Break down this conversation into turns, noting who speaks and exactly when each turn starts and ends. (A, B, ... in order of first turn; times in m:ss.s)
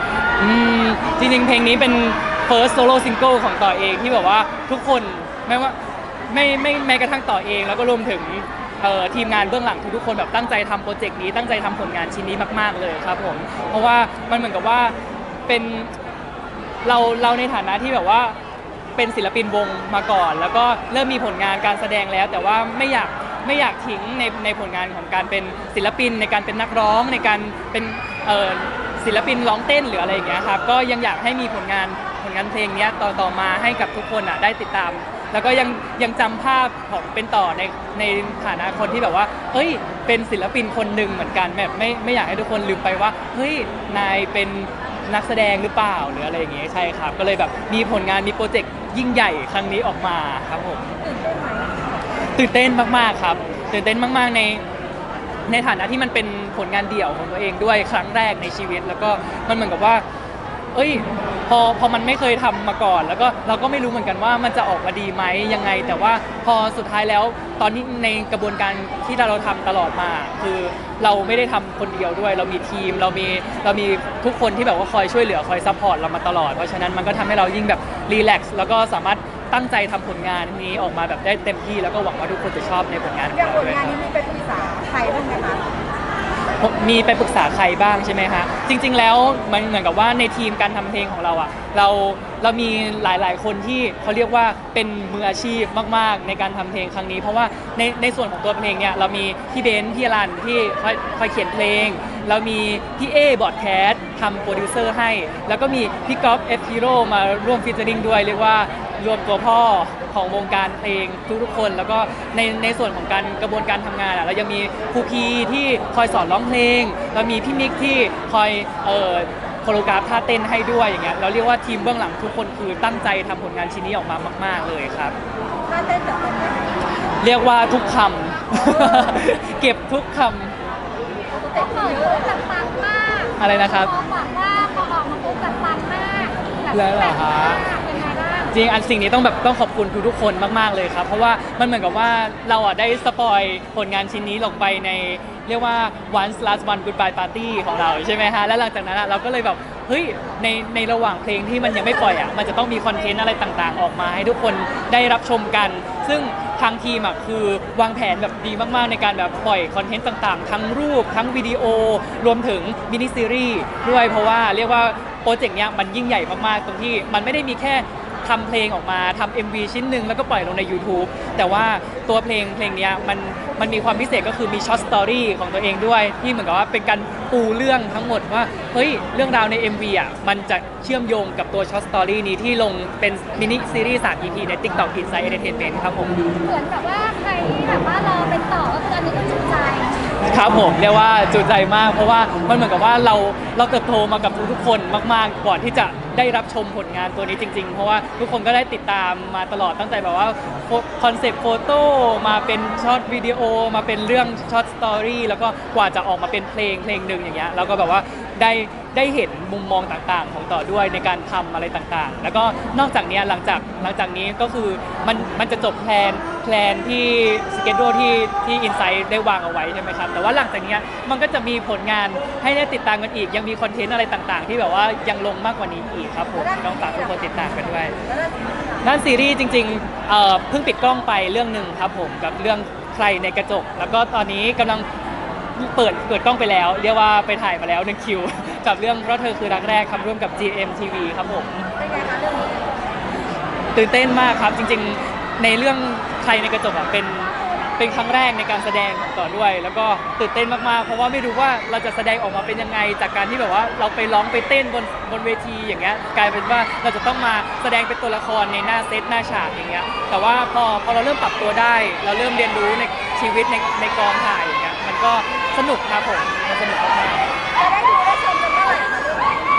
0:00.4-0:05.8 A
0:06.3-0:14.9 A
0:15.5-0:15.9 A
0:16.8-0:18.4 A
0:19.0-0:50.9 A
0:51.0-0:51.8 B
0:52.3-0:54.6 A
0:55.5-1:00.0 A
1:00.7-1:24.0 A
1:23.6-1:25.6 B
1:26.6-2:05.2 A
2:05.7-2:06.6 B
2:07.2-2:10.5 A
2:11.4-2:12.2 B
2:11.6-2:18.5 C
2:13.4-2:14.0 A
2:16.7-2:17.6 A
2:18.5-3:06.2 A
3:06.4-3:10.0 C
3:10.2-3:48.0 A
3:48.8-3:54.9 A
3:55.5-4:01.7 A
4:01.8-4:02.7 B
4:03.7-4:27.3 A
4:27.6-4:29.4 B